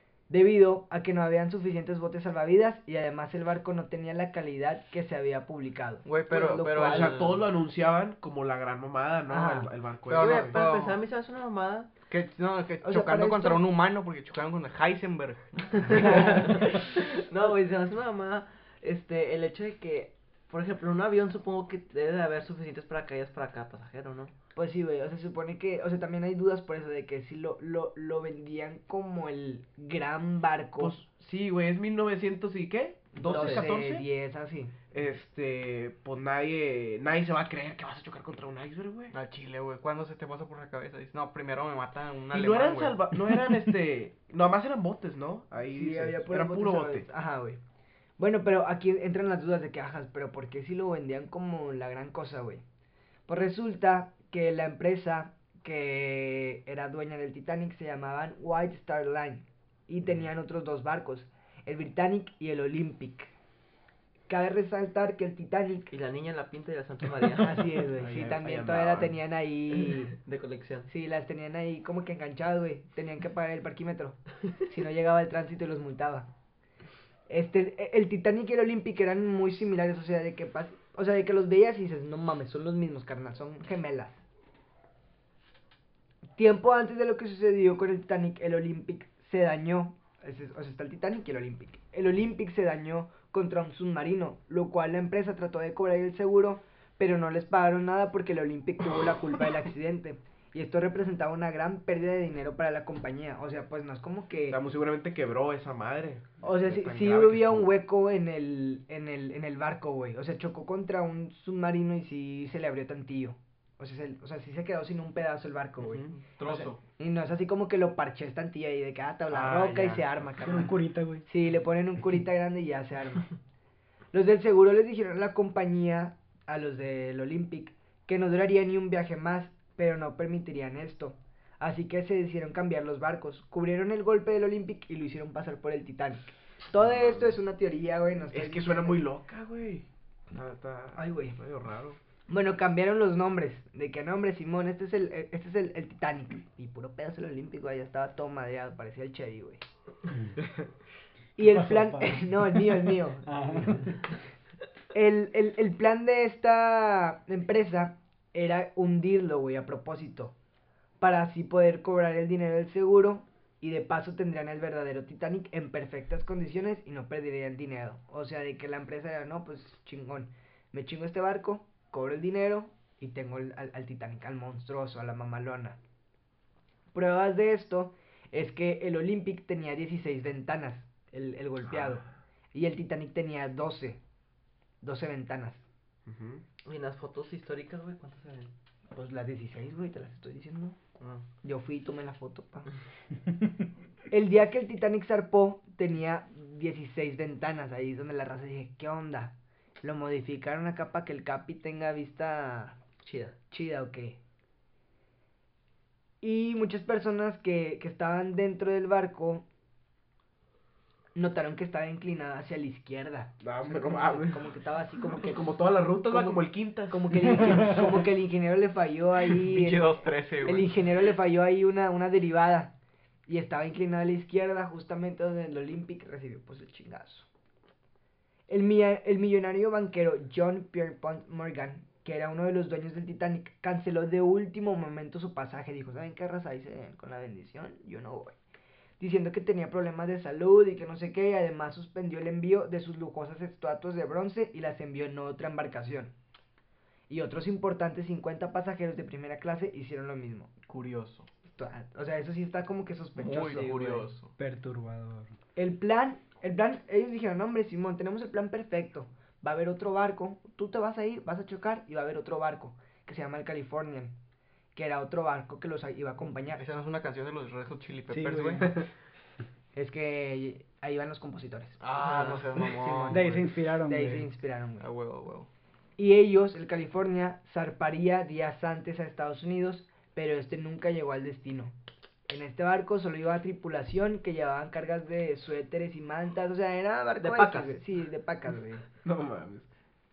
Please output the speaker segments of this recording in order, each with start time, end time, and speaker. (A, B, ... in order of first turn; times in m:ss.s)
0:00.3-0:07.1 A
0:06.0-0:07.4 B
0:06.8-0:10.6 C
0:09.3-0:09.7 A
0:10.1-0:11.0 B
0:10.1-0:11.9 D
0:12.1-0:16.9 B
0:12.8-0:13.6 A
0:15.8-0:24.3 D
0:24.6-0:31.0 A
0:30.8-0:34.1 C
0:33.2-0:34.7 A
0:33.2-0:33.7 D
0:34.9-0:39.1 C
0:39.1-0:43.1 B
0:42.3-0:47.1 C
0:45.7-0:47.6 A
0:48.2-0:52.6 A
0:53.3-1:03.3 A
1:04.3-1:05.9 A
1:05.9-1:07.7 D
1:07.4-1:10.2 A
1:08.0-1:09.2 C
1:09.9-1:10.9 D
1:10.9-1:16.3 A
1:17.3-1:24.2 A
1:26.4-1:44.6 A
1:44.5-1:47.7 C
1:46.4-2:03.4 A
1:56.0-1:56.8 B
1:59.3-2:00.6 C
2:00.4-2:01.2 E
2:04.1-2:19.0 A
2:16.8-2:17.4 C
2:18.3-2:22.0 C
2:21.0-2:21.4 A
2:22.3-2:29.6 A
2:30.4-2:30.6 C
2:31.4-2:34.0 A
2:31.7-2:32.2 E
2:33.3-2:34.0 E
2:34.9-2:40.3 A
2:41.0-2:55.8 A
2:56.9-3:04.0 A
3:01.7-3:02.0 C
3:04.8-3:05.6 A
3:06.1-3:06.4 C
3:06.6-3:08.5 D
3:08.9-3:10.8 A
3:11.4-3:12.7 A
3:14.1-3:24.2 A
3:23.0-3:23.3 D
3:26.2-3:29.4 A
3:31.2-3:35.5 A
3:33.4-3:34.5 C
3:35.0-3:37.9 C
3:36.1-3:42.7 A
3:39.4-3:40.7 B
3:43.3-3:47.3 A
3:48.5-3:58.4 A
3:59.0-4:06.1 A
4:07.1-4:10.5 A
4:10.7-4:11.3 B
4:11.4-4:14.1 A
4:13.2-4:14.3 B
4:14.4-4:15.3 E
4:15.6-4:24.2 A
4:24.8-4:26.6 A
4:26.5-4:28.8 B
4:28.1-4:28.8 E
4:29.8-4:33.3 A
4:31.8-4:33.5 B
4:33.1-4:34.3 E
4:33.8-4:34.9 A
4:34.8-4:35.5 B
4:36.0-4:41.8 A
4:42.3-4:48.9 A
4:47.2-4:47.8 D
4:49.0-4:49.7 C